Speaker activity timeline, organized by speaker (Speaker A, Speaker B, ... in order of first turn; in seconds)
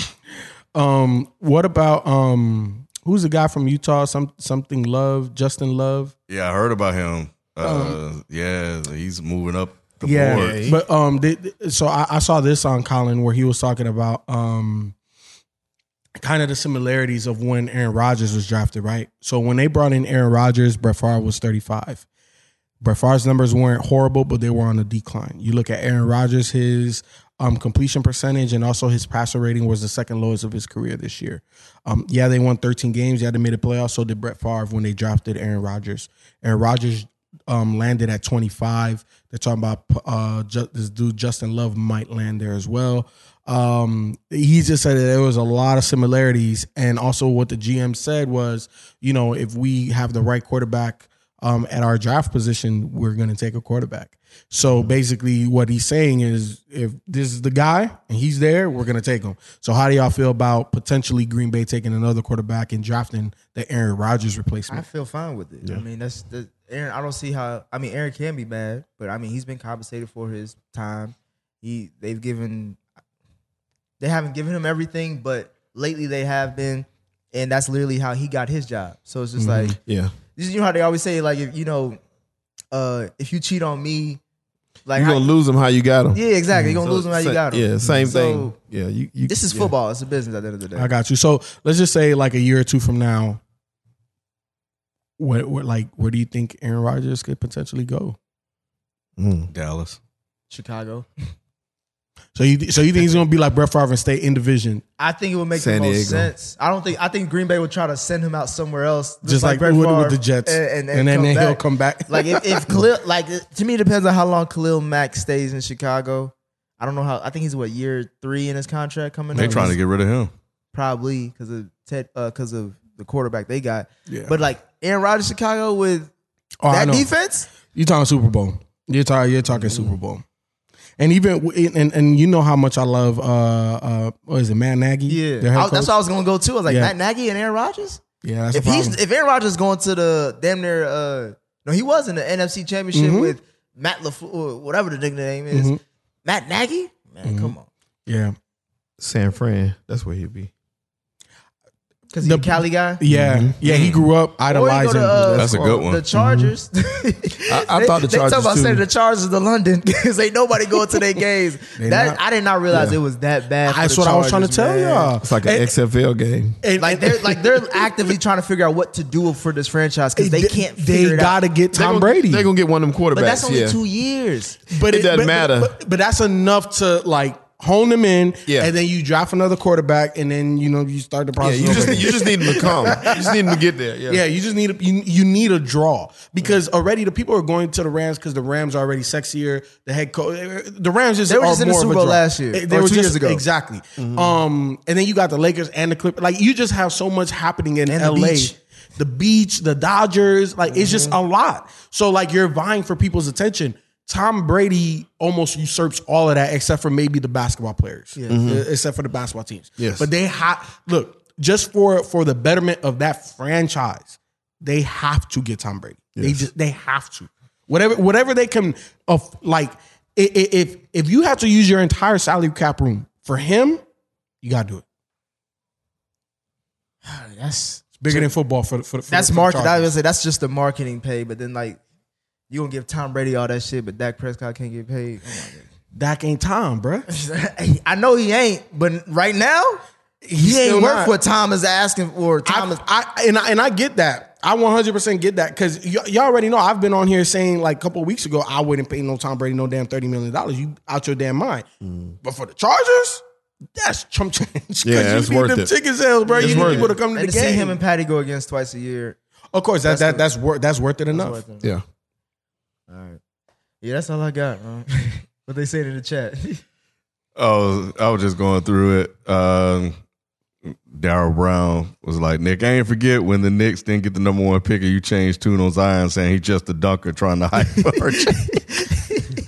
Speaker A: 0.7-6.1, 7.6-8.0, 10.7-14.9, 16.2-22.1, 22.8-64.9, 79.4-79.8, 90.8-93.4, 95.2-98.2, 102.3-104.8, 109.2-112.8, 119.4-119.7, 124.1-124.3, 126.6-127.1, 127.6-130.2, 131.0-135.9, 136.7-136.9, 138.2-139.0, 142.9-143.3, 145.5-145.8, 147.2-147.5, 148.1-148.3, 152.2-155.4, 156.2-156.5, 161.8-162.2, 163.7-165.7, 166.6-167.9, 170.2-172.5, 174.7-183.5, 184.1-223.8, 224.4-224.8, 227.9-229.9, 235.9-237.1, 240.2-241.1, 242.4-251.7, 252.2-253.2, 253.8-257.8, 259.5-261.4
Speaker B: 6.3-10.6, 99.5-100.0, 119.3-120.3, 153.7-154.0, 155.3-156.0, 267.4-269.9, 270.6-278.5
Speaker C: 10.1-10.8, 54.6-54.9, 79.8-80.1, 85.0-89.7, 99.2-99.5, 105.5-106.3, 129.5-130.0, 149.0-150.5, 153.1-153.5, 155.2-155.8, 157.5-158.8, 165.2-166.6, 171.7-173.8, 174.9-175.7, 181.4-184.2, 194.0-194.4, 200.7-201.1, 208.3-208.7, 209.8-210.1, 216.2-216.5, 251.8-252.2, 254.8-255.7, 256.4-256.9
Speaker D: 64.7-72.8, 74.0-79.8, 80.4-82.0, 82.7-84.2, 84.9-85.3, 86.1-88.5, 89.3-90.9, 100.5-101.1, 105.0-119.8, 120.7-126.1, 126.7-127.5, 135.1-147.7, 152.1-153.0, 154.4-165.1, 166.8-171.4, 173.1-174.7, 181.6-182.1, 182.6-182.9, 191.3-193.4, 197.9-198.5, 208.2-208.5, 227.0-228.3, 229.1-231.8, 232.5-235.7, 237.1-239.8, 240.4-242.8, 256.2-259.2, 259.9-260.3, 261.1-261.7, 262.9-263.2, 263.8-266.6, 278.1-279.2